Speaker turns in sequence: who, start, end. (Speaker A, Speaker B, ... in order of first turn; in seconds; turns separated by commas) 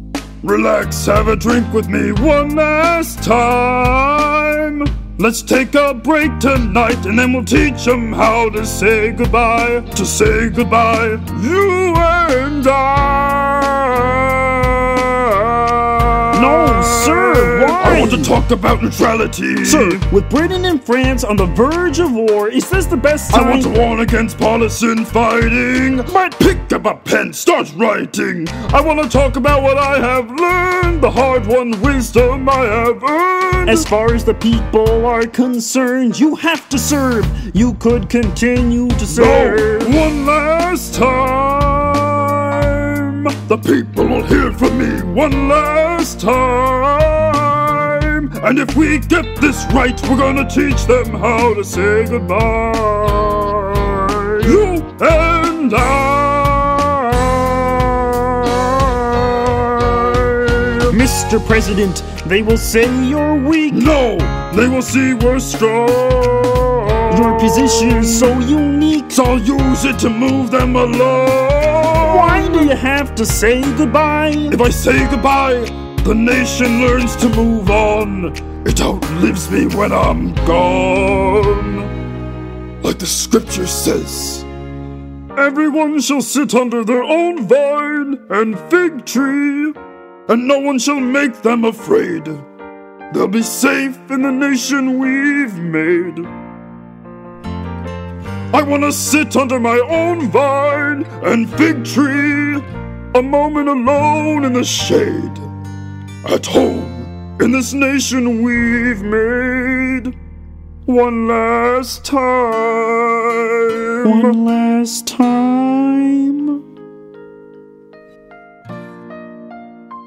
Speaker A: 0.4-20.0, Speaker B: 16.3-18.3, Speaker B: 19.6-23.7, Speaker A: 23.3-33.9, Speaker B: 33.7-39.9, Speaker A: 39.1-61.0, Speaker B: 60.9-63.9, Speaker A: 63.7-68.3, Speaker B: 67.1-69.2, Speaker A: 69.1-72.7, Speaker B: 72.0-74.6, Speaker A: 74.5-81.9, Speaker A: 82.8-84.5, Speaker A: 85.3-89.8, Speaker A: 90.3-92.5, Speaker A: 93.1-96.3, Speaker A: 98.5-105.5, Speaker A: 106.2-110.2, Speaker A: 110.9-114.4, Speaker B: 114.0-116.6